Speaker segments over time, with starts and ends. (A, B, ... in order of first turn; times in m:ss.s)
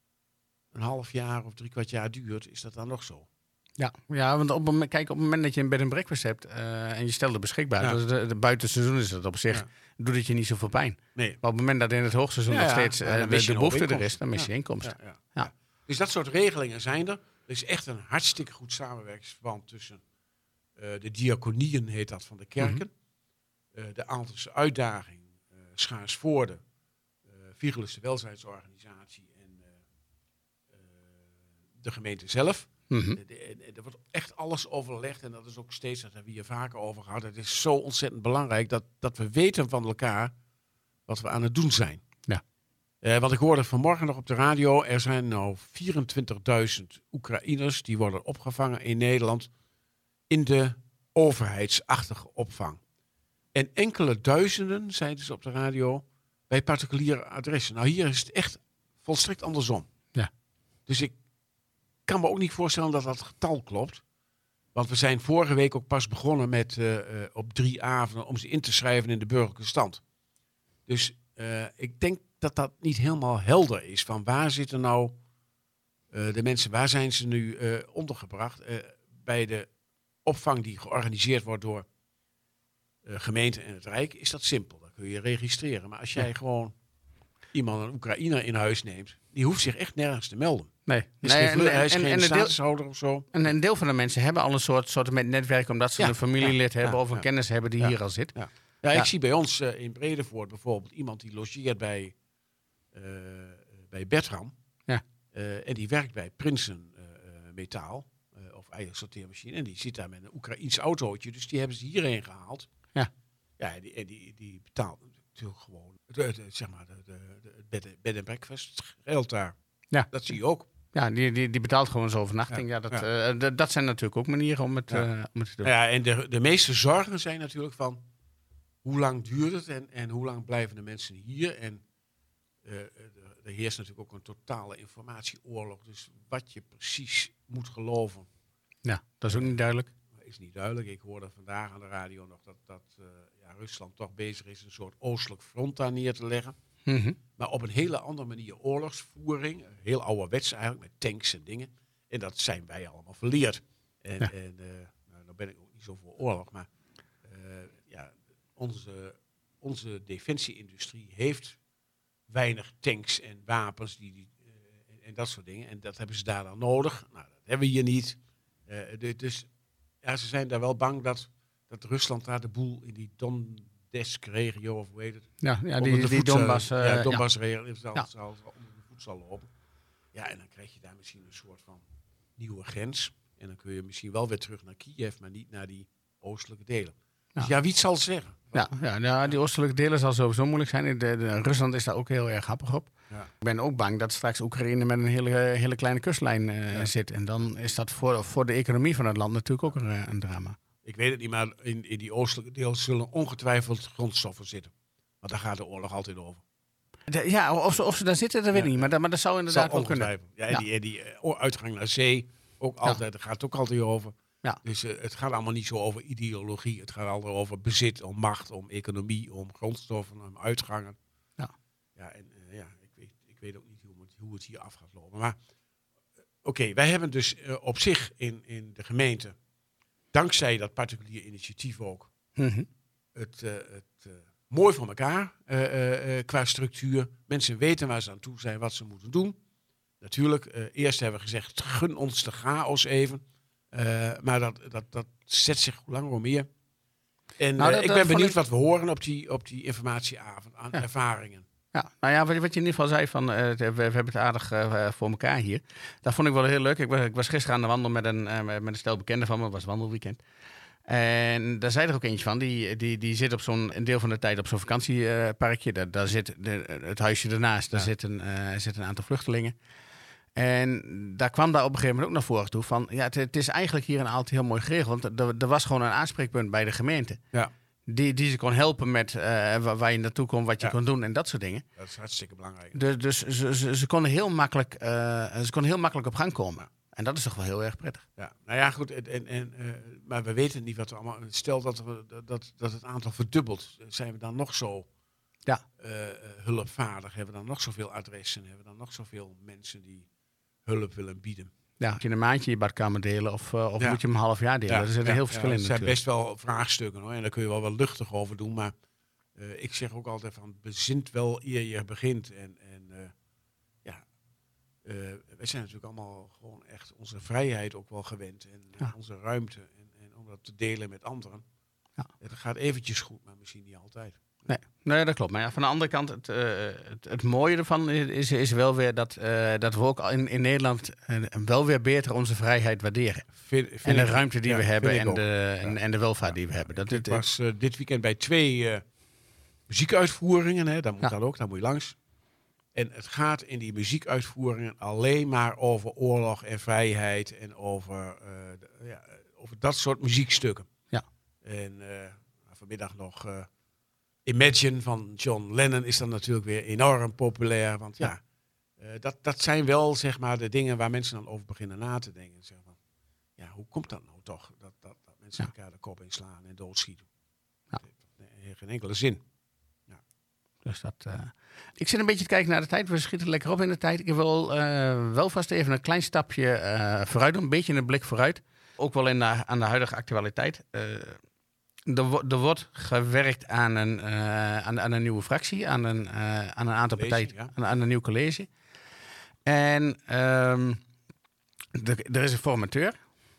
0:00.7-0:03.3 A
0:03.8-0:15.5 B
0:12.5-0:15.3 A
0:15.9-0:20.0 A
0:20.8-0:22.9 A
0:23.7-0:26.6 A
0:27.3-0:29.8 A
0:30.7-0:31.3 A
0:31.8-0:40.3 A
0:32.9-0:33.2 B
0:41.1-0:42.0 A
0:43.0-0:49.5 A
0:50.3-0:52.8 A
0:53.5-0:59.9 A
1:00.9-1:01.2 A
1:02.1-1:04.0 A
1:04.8-1:10.0 A
1:10.9-1:15.2 A
1:16.1-1:19.7 A
1:20.2-1:21.8 A
1:23.0-1:26.7 A
1:27.5-1:30.7 A
1:30.9-1:32.5 B
1:31.2-1:33.5 A
1:33.3-1:38.3 B
1:36.0-1:37.2 A
1:37.8-1:42.1 A
1:42.9-1:44.5 A
1:45.3-1:52.7 A
1:53.6-1:59.6 A
2:00.1-2:00.7 A
2:00.9-2:05.7 B
2:02.5-2:03.0 A
2:05.6-2:08.0 A
2:08.8-2:11.8 A
2:12.6-2:18.3 A
2:18.8-2:19.9 B
2:20.1-2:26.5 A
2:26.9-2:27.2 B
2:27.4-2:36.7 A
2:37.2-2:41.6 A
2:42.3-2:49.5 A
2:50.0-2:59.5 A
2:55.4-2:57.2 B
3:00.1-3:01.8 A
3:02.4-3:08.7 A
3:08.5-3:20.6 B
3:20.8-3:26.4 A
3:27.1-3:30.6 B
3:28.5-3:28.9 A
3:29.5-3:41.0 A
3:42.0-3:45.4 A
3:46.4-3:49.4 A
3:50.1-3:52.1 A
3:52.4-3:52.7 B
3:53.2-3:59.4 A
4:00.0-4:06.5 A
4:07.4-4:11.4 A
4:07.6-4:08.4 B
4:11.7-4:20.2 B
4:20.9-4:29.5 B
4:30.4-4:37.2 B
4:37.9-4:41.6 B
4:41.8-4:42.8 A
4:42.7-4:48.0 B
4:48.2-4:54.9 A
4:55.8-5:00.1 A
5:00.6-5:01.5 A
5:01.8-5:06.0 B
5:04.7-5:08.7 A
5:09.4-5:13.1 A
5:14.8-5:21.4 A
5:22.2-5:24.2 A
5:24.5-5:33.3 B
5:33.4-5:38.8 A
5:33.8-5:37.2 B
5:39.7-5:42.0 A
5:42.8-5:50.7 A
5:51.4-5:53.5 A
5:54.3-5:58.2 A
5:58.8-6:02.8 A
6:03.4-6:07.1 A
6:07.8-6:09.2 A
6:10.6-6:21.2 B
6:21.9-6:28.5 B
6:27.0-6:27.5 A
6:29.4-6:30.8 B
6:31.7-6:33.0 B